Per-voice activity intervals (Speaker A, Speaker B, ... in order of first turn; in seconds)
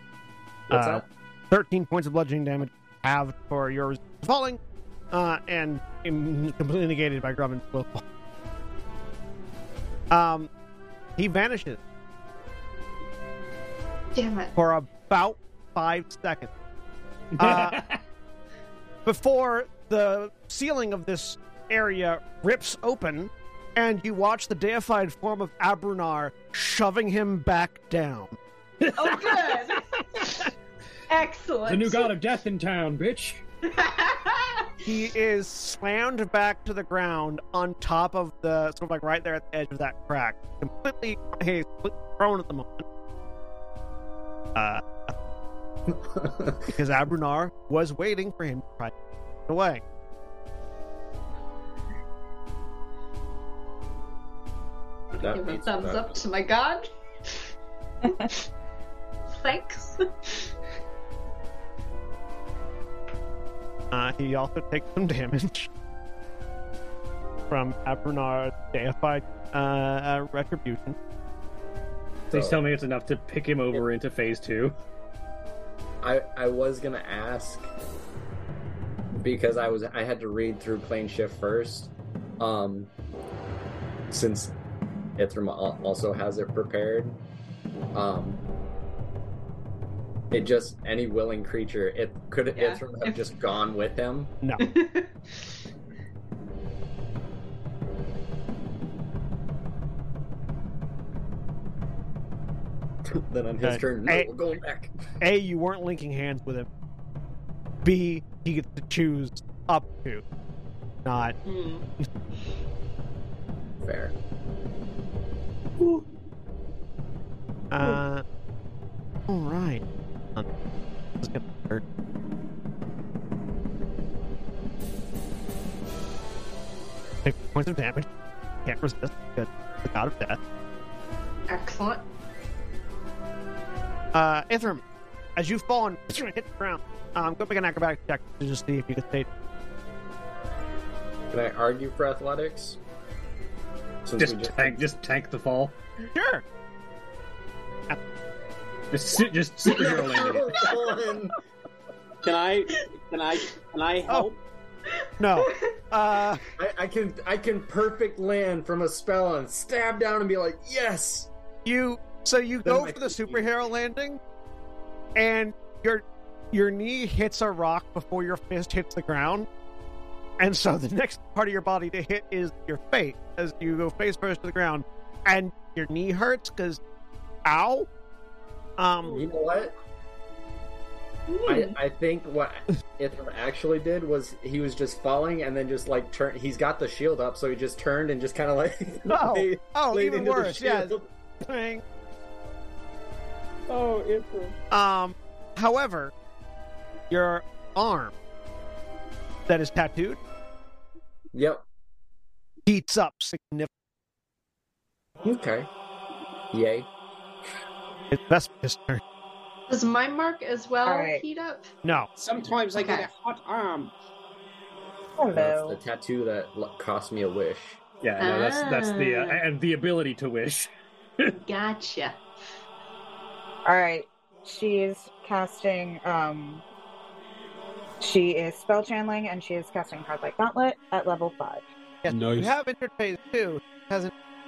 Speaker A: 0.7-1.0, 45.9-46.7, 55.1-56.3, 72.3-72.6, 76.0-77.7, 79.1-82.9, 84.1-84.5, 85.2-87.2, 87.9-88.4, 90.3-94.3, 103.0-104.9, 113.8-114.1, 141.3-142.8, 144.0-144.8, 149.6-151.3, 156.6-161.3, 162.6-163.4, 179.1-179.7, 181.5-191.1, 201.3-201.6, 205.2-205.7, 206.5-206.9, 215.3-217.8
Speaker B: 0.7-4.6, 5.1-8.0, 10.1-10.5, 11.2-11.8, 14.6-16.5, 17.4-17.8, 19.1-28.4, 34.8-42.9, 44.5-45.1, 46.7-48.9, 49.5-49.8, 63.9-65.7, 67.5-71.0, 103.6-104.3, 105.2-106.7, 107.8-110.2, 111.0-111.3, 117.7-118.2, 119.3-119.8, 121.2-121.8, 127.2-128.1, 128.6-130.4, 134.1-134.8, 135.3-139.3, 146.0-146.4, 155.2-156.4, 161.6-164.2, 165.2-169.5, 170.4-176.8, 177.4-177.9, 178.8-179.2, 189.1-191.8, 194.7-196.1, 197.1-198.1, 199.5-200.2, 202.7-203.7, 208.1-209.0, 211.8-212.1, 232.0-234.1
Speaker C: 14.1-14.5, 28.9-30.5, 31.1-32.1, 33.6-34.7, 55.1-57.4, 58.1-58.4, 59.3-60.5, 92.5-93.3, 94.6-95.5, 111.4-111.8, 131.5-132.0, 155.4-155.7, 181.3-181.8, 209.7-211.7, 212.7-213.1, 218.2-219.4, 221.3-222.2
Speaker D: 17.3-18.0, 28.8-29.8, 31.6-33.4, 72.3-74.8, 144.2-145.8, 148.9-150.6, 218.0-221.3
Speaker E: 152.2-154.4, 193.7-194.6, 212.2-213.9, 232.1-232.5
Speaker F: 210.8-211.2, 215.2-215.8, 223.7-226.6, 228.0-231.6